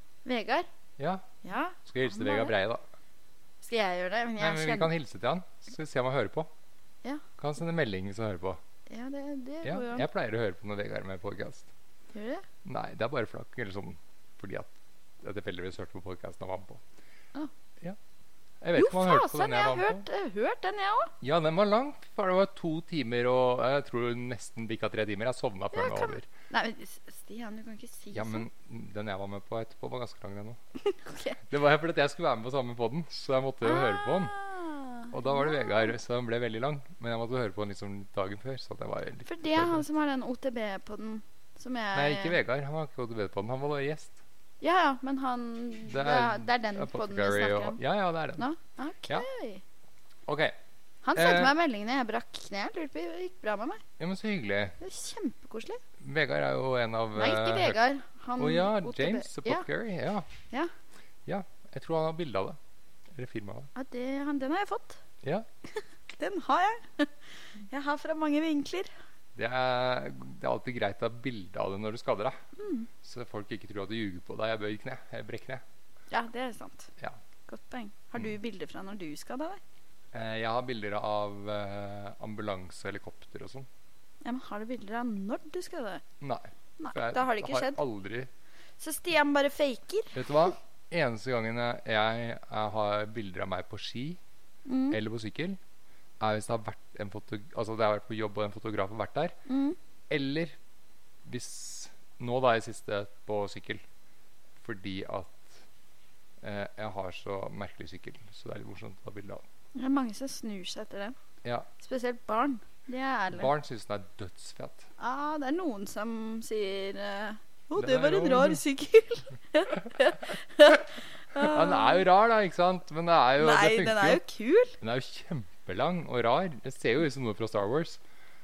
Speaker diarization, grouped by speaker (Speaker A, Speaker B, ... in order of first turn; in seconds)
Speaker A: 0.2-0.7, 1.4-2.5, 3.6-4.9, 8.9-10.1, 12.1-12.4, 18.8-21.1, 25.7-28.5, 30.8-31.4, 33.6-35.9, 39.2-42.4, 44.6-47.8, 48.4-49.6, 51.0-53.8, 54.8-55.8, 57.1-59.7, 63.8-65.0, 65.7-68.9, 72.6-72.9, 76.1-76.9, 77.5-79.6, 84.2-86.0, 86.8-87.8, 88.8-90.2, 94.7-95.0, 99.5-99.8, 109.8-111.1, 111.8-113.5, 115.0-122.0, 123.4-124.8
Speaker B: 1.0-1.3, 1.9-2.9, 4.4-6.5, 7.4-8.6, 9.6-11.7, 12.6-16.8, 18.6-20.0, 21.2-26.3, 28.1-30.6, 31.4-34.3, 35.1-39.8, 41.9-44.2, 45.9-48.5, 50.3-50.6, 51.1-51.5, 54.0-54.8, 56.0-57.8, 58.4-60.3, 61.3-62.6, 63.1-63.7, 69.4-72.4, 73.0-75.6, 80.1-83.7, 86.2-88.3, 90.1-94.2, 94.9-95.6, 96.2-99.4, 100.1-100.5, 101.2-103.8, 104.6-105.6, 106.4-109.4, 113.3-114.9, 117.8-118.6, 121.3-124.2, 124.8-128.0